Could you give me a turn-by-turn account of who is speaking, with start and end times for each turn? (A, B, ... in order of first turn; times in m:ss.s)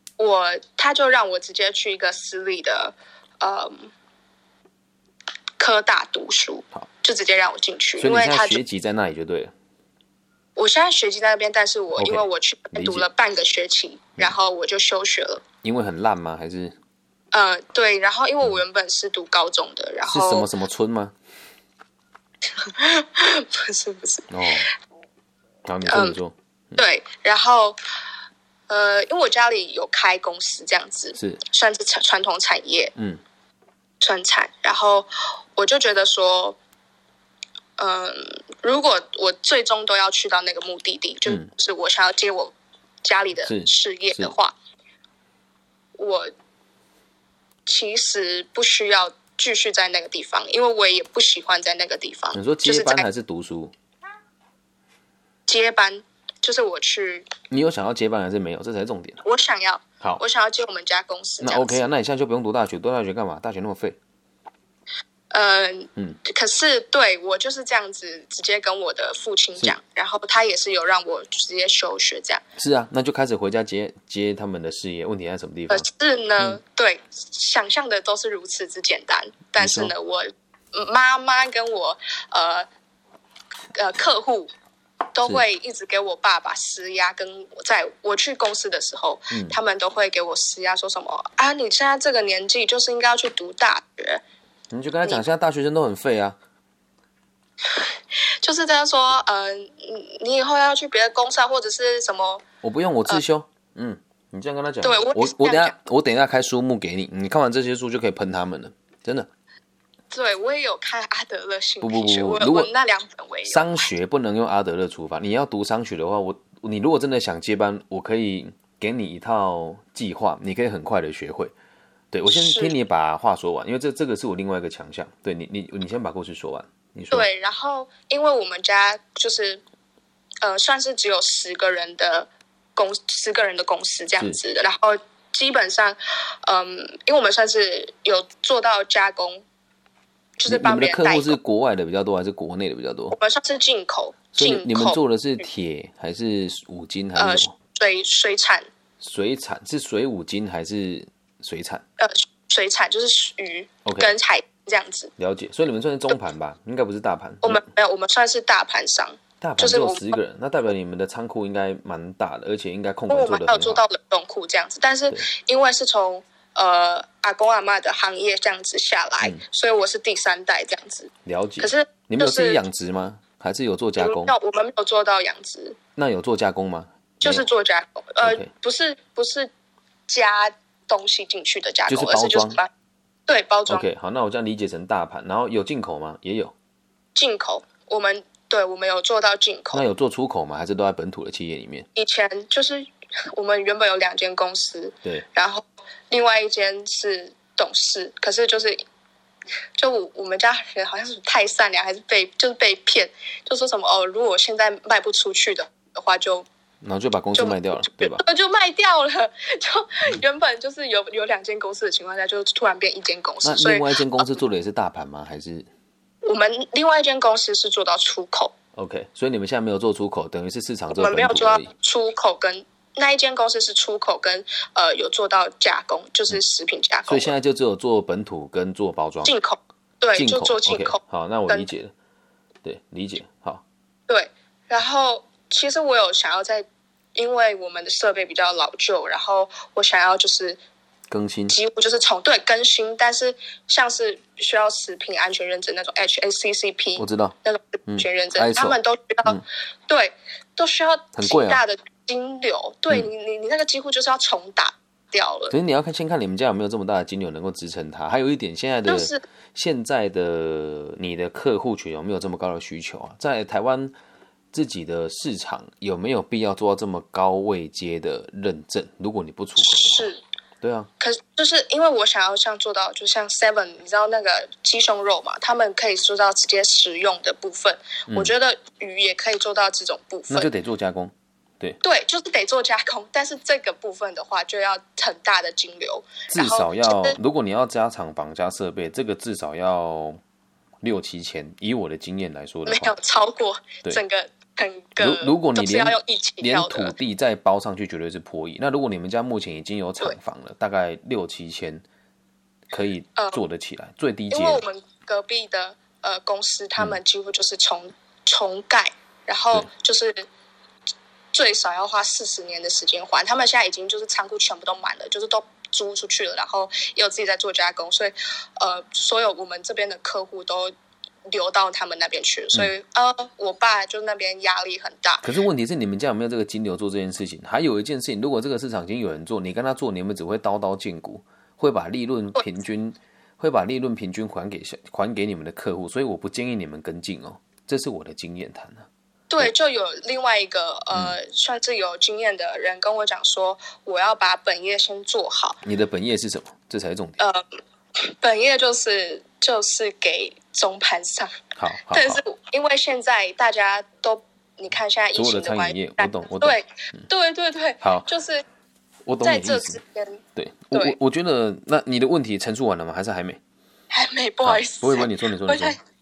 0:00.2-0:03.9 A
0:05.6-0:08.6 A
0:08.0-0:09.5 B
0:10.6-0:15.4 A
0:12.0-0:13.1 B
0:15.6-0:16.8 B
0:17.3-0:20.5 A
0:20.1-0:21.2 B
0:22.6-0:24.3 A
0:24.3-0:24.7 B
0:25.6-0:26.8 B
0:25.9-0:26.2 A
0:26.8-0:27.8 A
0:28.7-0:32.9 A
0:33.0-0:33.2 B
0:34.0-0:36.6 A
0:37.8-0:44.6 A
0:43.4-0:44.4 B
0:46.0-0:46.3 A
0:47.7-0:53.1 A
0:52.3-0:53.7 B
0:55.5-0:57.3 A
0:57.5-0:59.2 B
0:59.2-1:01.8 A
1:01.4-1:04.0 B
1:05.3-1:12.4 A
1:12.6-1:15.9 B
1:15.7-1:22.7 A
1:19.6-1:19.9 B
1:23.7-1:24.5 A
1:25.1-1:34.2 A
1:29.3-1:29.6 B
1:34.7-1:36.4 B
1:38.4-1:42.4 A
1:42.6-1:49.3 B
1:44.8-1:45.8 A
1:50.1-1:53.9 A
1:51.8-1:52.7 B
1:53.5-2:01.5 B
2:02.1-2:07.3 B
2:02.3-2:02.7 A
2:07.1-2:09.6 A
2:10.4-2:19.4 A
2:20.4-2:21.4 A
2:20.5-2:23.2 B
2:23.1-2:25.0 A
2:24.4-2:27.5 B
2:27.2-2:28.7 A
2:29.0-2:31.8 B
2:32.0-2:35.1 A
2:33.8-2:34.1 B
2:35.2-2:37.6 B
2:37.4-2:40.1 A
2:39.4-2:43.8 B
2:43.1-2:52.6 A
2:51.3-2:54.3 B
2:54.0-2:55.8 A
2:56.0-2:57.5 B
2:57.2-2:59.5 A
2:58.2-2:58.5 B
3:00.1-3:02.7 A
3:01.9-3:02.6 B
3:03.3-3:03.9 A
3:03.7-3:06.5 B
3:07.2-3:09.9 A
3:09.7-3:11.9 B
3:12.0-3:18.8 A
3:19.8-3:26.5 A
3:26.8-3:28.2 B
3:27.3-3:34.3 A
3:33.4-3:35.7 B
3:36.2-3:38.5 A
3:38.8-3:41.7 B
3:41.0-3:47.3 A
3:47.1-3:49.3 B
3:49.2-3:51.7 A
3:50.2-3:51.9 B
3:52.6-3:53.6 B
3:54.1-4:00.6 A
4:01.1-4:01.6 B
4:01.5-4:09.4 A
4:07.0-4:07.4 B
4:07.9-4:09.4 B
4:09.9-4:15.5 A
4:11.2-4:11.6 B
4:15.5-4:24.0 B
4:18.9-4:19.2 A
4:24.5-4:30.1 B
4:29.6-4:30.2 A
4:30.6-4:30.9 B
4:31.0-4:40.5 A
4:40.3-4:41.8 B
4:41.8-4:47.2 A
4:46.3-4:50.2 B
4:50.8-4:52.9 B
4:52.7-4:56.9 A
4:55.0-5:01.8 B
5:02.7-5:04.6 B
5:04.3-5:10.3 A
5:11.3-5:20.7 A
5:21.3-5:25.3 A
5:25.2-5:38.9 B
5:39.3-5:45.6 A
5:45.6-5:47.2 B
5:48.0-5:51.4 A
5:51.6-5:52.2 B
5:51.9-5:58.4 A
5:55.2-5:56.6 B
5:57.8-5:58.1 B
5:59.1-5:59.8 B
5:59.2-6:01.0 A
6:00.4-6:03.4 B
6:03.9-6:05.8 A
6:04.4-6:05.8 B